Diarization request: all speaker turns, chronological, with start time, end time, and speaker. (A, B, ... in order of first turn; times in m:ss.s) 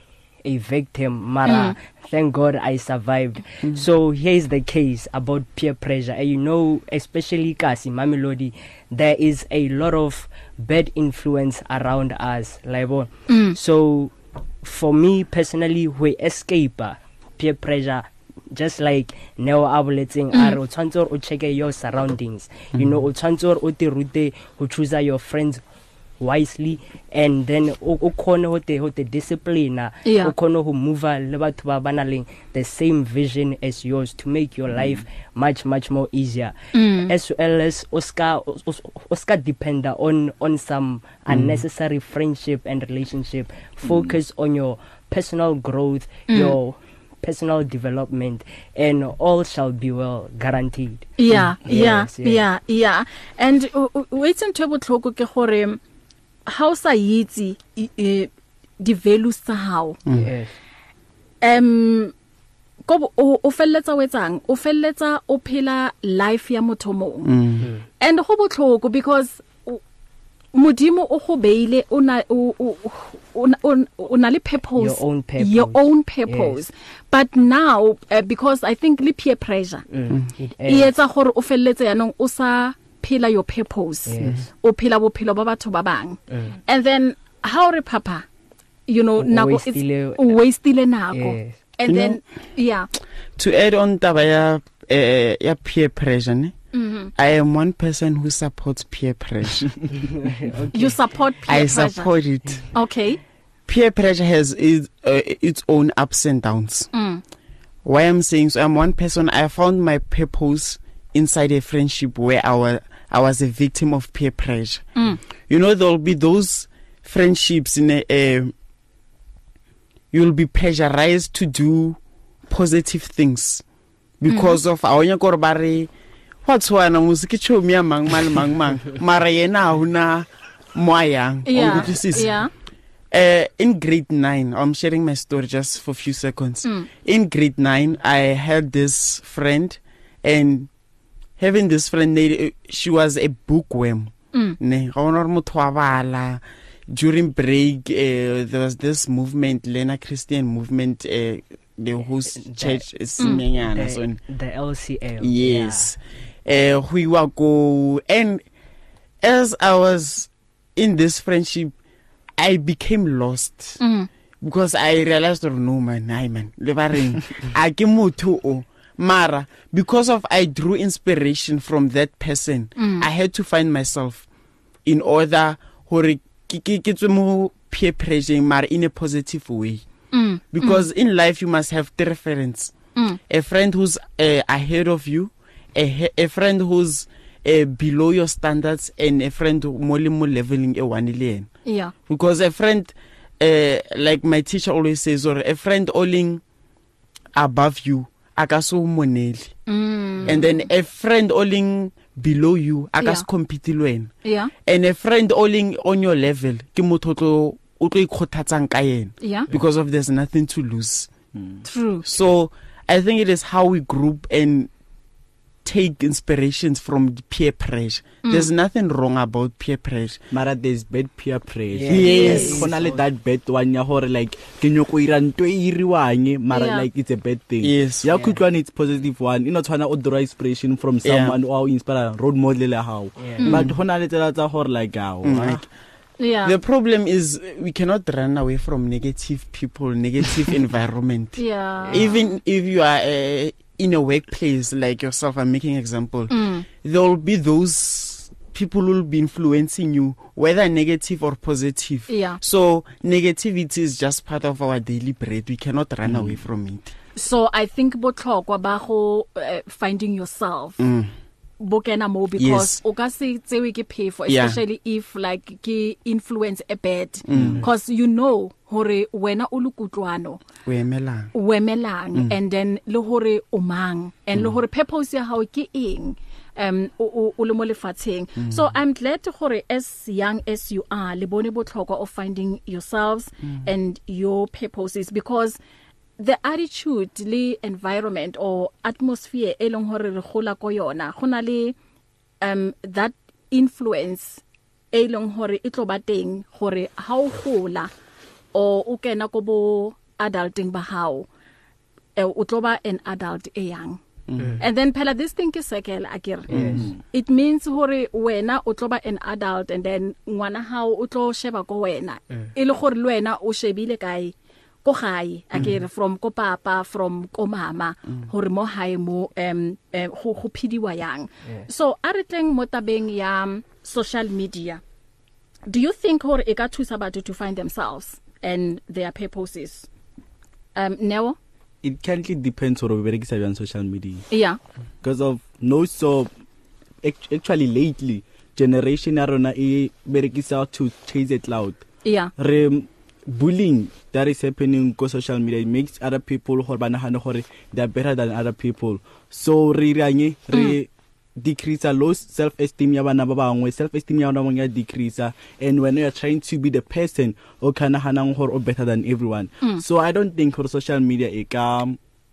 0:00.4-0:25.6 A
0:01.5-0:01.8 B
0:13.3-0:13.6 B
0:22.8-0:23.0 C
0:26.2-0:52.4 A
0:30.0-0:30.3 B
0:36.7-0:37.1 B
0:46.3-0:46.6 B
0:51.2-0:55.8 B
0:56.5-1:00.0 B
1:00.1-1:00.6 A
1:01.4-1:02.1 B
1:02.9-1:07.3 B
1:07.2-1:07.7 C
1:08.0-1:09.8 B
1:10.5-1:19.8 B
1:14.8-1:16.7 A
1:19.9-1:20.9 A
1:20.7-1:28.3 B
1:24.1-1:24.5 A
1:28.9-1:32.9 B
1:29.2-1:30.4 A
1:31.1-1:31.6 A
1:31.9-1:32.2 C
1:33.4-1:36.6 C
1:36.7-1:37.1 B
1:37.2-1:39.8 C
1:40.2-1:40.9 A
1:40.7-1:42.1 B
1:41.5-1:42.7 C
1:42.7-1:43.2 B
1:43.7-1:46.9 C
1:46.9-1:47.2 B
1:47.8-1:55.0 C
1:55.5-1:58.5 C
2:00.1-2:03.6 C
2:04.2-2:05.9 C
2:04.3-2:04.6 B
2:06.4-2:12.4 C
2:11.5-2:12.5 B
2:13.1-2:20.7 C
2:21.4-2:34.2 C
2:32.4-2:35.9 A
2:35.2-2:38.4 C
2:39.2-2:41.7 C
2:42.4-2:43.8 C
2:43.8-2:44.1 B
2:44.4-2:54.3 C
2:52.8-2:53.1 B
2:54.8-2:59.9 C
3:00.1-3:00.9 B
3:00.5-3:02.8 C
3:03.3-3:11.5 C
3:11.7-3:11.9 B
3:12.1-3:16.4 C
3:17.3-3:19.6 C
3:19.7-3:20.4 B
3:20.2-3:24.1 C
3:23.0-3:23.2 B
3:24.2-3:24.5 B
3:24.6-3:31.1 C
3:29.2-3:29.5 B
3:31.4-3:31.6 D
3:31.6-3:32.1 B
3:32.0-3:34.7 C
3:35.6-3:40.2 C
3:40.3-3:55.6 D
3:41.7-3:43.0 A
3:41.9-3:42.6 C
3:42.1-3:42.6 B
3:46.5-3:46.9 B
3:47.6-3:48.1 C
3:48.1-3:48.4 A
3:51.0-3:51.4 C
3:53.2-3:53.5 A
3:53.4-3:53.7 B
3:53.5-3:53.8 C
3:55.2-3:55.7 C
3:56.2-3:56.6 B
3:56.4-4:16.9 C
4:01.4-4:02.3 B
4:06.3-4:06.6 B
4:12.1-4:12.4 B
4:16.0-4:16.4 D
4:17.2-4:20.9 B
4:20.8-4:21.1 C
4:21.6-4:30.4 B
4:22.4-4:22.8 C
4:24.3-4:24.6 C
4:27.3-4:27.6 C
4:27.3-4:27.6 D
4:30.6-4:31.3 C
4:31.3-4:45.6 B
4:38.4-4:38.7 C
4:46.2-4:51.8 B
4:52.4-4:57.9 B
4:58.5-5:01.3 B
5:02.2-5:04.0 B
5:04.3-5:04.6 C
5:04.6-5:06.5 B
5:06.5-5:06.9 A
5:06.5-5:06.9 C
5:07.1-5:24.8 B
5:25.7-5:29.9 B
5:30.8-5:31.4 B
5:31.8-5:34.3 D
5:34.3-5:34.6 B
5:35.0-5:36.3 D
5:37.0-5:41.8 D
5:42.0-5:42.3 B
5:42.4-6:02.0 D